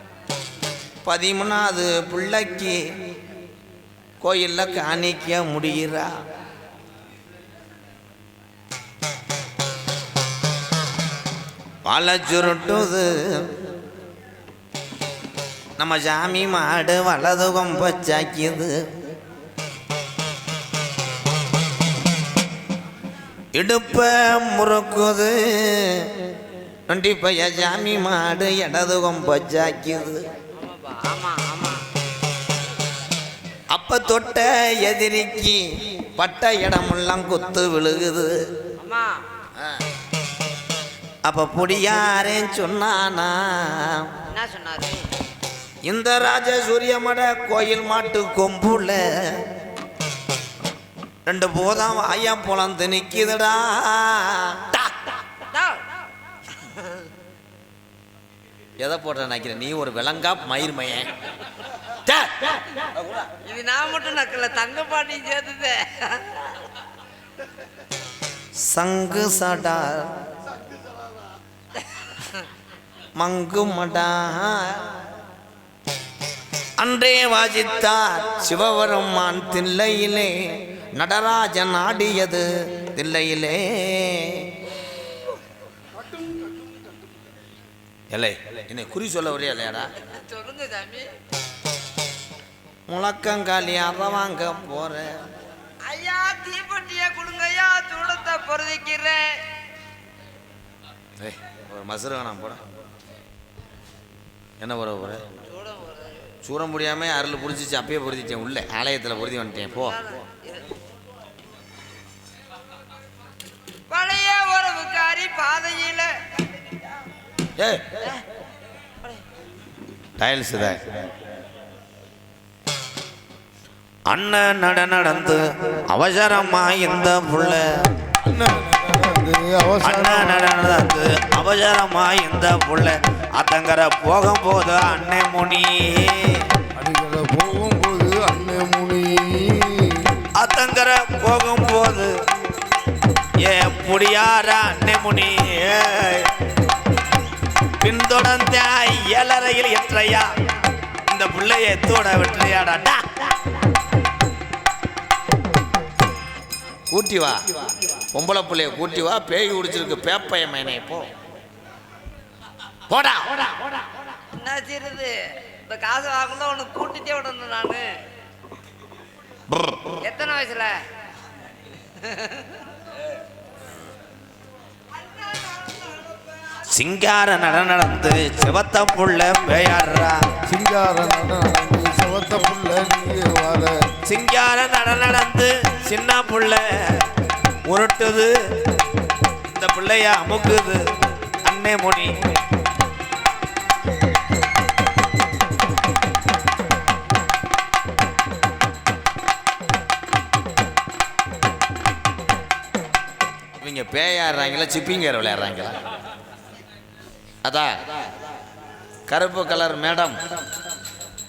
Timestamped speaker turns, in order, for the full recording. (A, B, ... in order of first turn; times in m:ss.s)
0:01.0-0:02.8 A
0:04.2-0:06.1 A
0:11.8-0:13.5 A
0:15.8-0:18.8 A
0:23.5-0:26.1 A
0:26.9-0:30.2 A
0:30.6-0:31.8 B
0:33.7-0:35.6 A
0:36.1-0:38.3 A
0:38.8-0:39.2 B
0:41.2-0:44.1 A
0:44.3-0:45.0 B
0:45.8-0:49.0 A
0:51.2-0:54.9 A
0:55.5-0:55.8 B
0:58.8-1:01.1 A
1:02.0-1:02.9 A
1:03.4-1:06.5 B
1:08.7-1:10.1 A
1:13.2-1:14.7 A
1:16.8-1:20.3 A
1:21.0-1:24.3 A
1:28.1-1:29.9 A
1:30.0-1:31.1 B
1:32.9-1:35.2 A
1:35.8-1:39.3 B
1:41.2-1:42.6 A
1:44.6-1:45.2 A
1:45.5-1:46.1 B
1:46.4-1:50.0 A
1:49.8-1:50.6 B
1:53.9-1:56.2 B
1:57.6-1:57.9 A
2:00.2-2:00.8 A
2:04.1-2:07.8 A
2:08.2-2:10.6 C
2:09.8-2:16.4 A
2:16.8-2:20.1 C
2:20.4-2:22.1 A
2:23.4-2:26.3 A
2:27.8-2:30.3 A
2:31.1-2:33.2 A
2:36.9-2:37.4 A
2:38.1-2:41.1 A
2:42.9-2:43.5 A
2:44.3-2:47.9 B
2:49.5-2:49.8 A
2:50.0-2:50.7 B
2:52.0-2:52.6 B
2:54.9-2:56.6 B
2:56.7-3:00.2 A
3:00.4-3:03.8 C
3:04.0-3:06.7 A
3:07.6-3:08.3 A
3:09.5-3:10.8 A
3:11.4-3:12.1 A
3:23.6-3:25.8 A
3:27.4-3:27.7 A
3:29.1-3:30.2 A